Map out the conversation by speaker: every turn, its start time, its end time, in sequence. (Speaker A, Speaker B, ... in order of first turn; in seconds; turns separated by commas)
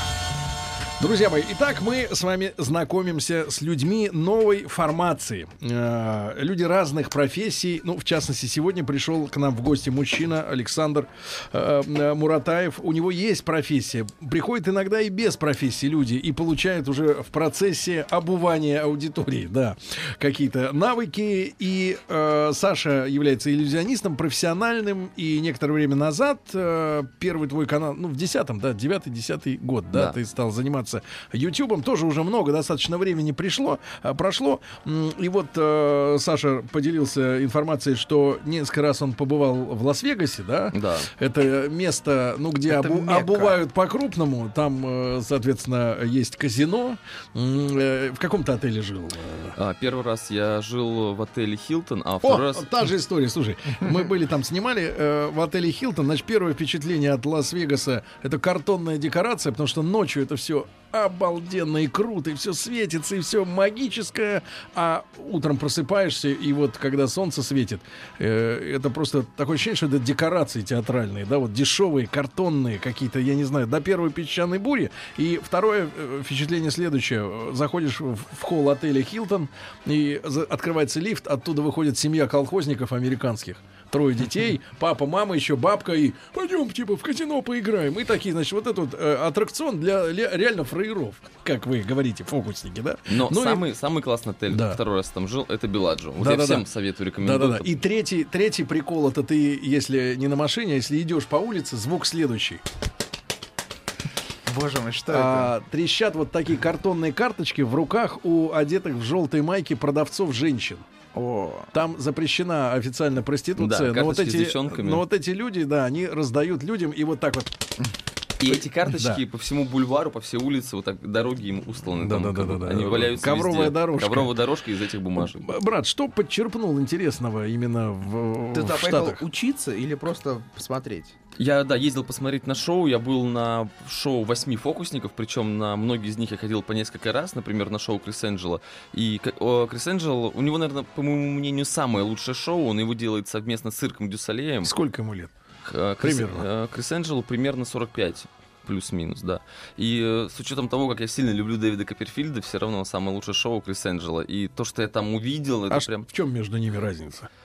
Speaker A: 1.0-49.5, Speaker B: 29.9-30.2, Speaker B: 40.7-41.1, Speaker C: 42.7-43.6, Speaker B: 49.5-52.7, Speaker A: 52.2-93.7, Speaker B: 93.1-97.7, Speaker A: 94.5-94.8, Speaker A: 96.2-96.7, Speaker A: 97.2-102.6, Speaker C: 104.5-105.5, Speaker A: 105.1-110.8, Speaker C: 111.1-111.7, Speaker A: 111.7-117.7, Speaker B: 113.6-115.0, Speaker B: 118.4-125.5, Speaker A: 118.5-119.2, Speaker A: 122.0-124.3, Speaker A: 125.2-129.2, Speaker C: 128.5-131.1, Speaker B: 131.4-144.7, Speaker A: 144.6-145.3, Speaker B: 145.6-156.1, Speaker A: 146.0-146.4, Speaker A: 155.7-157.3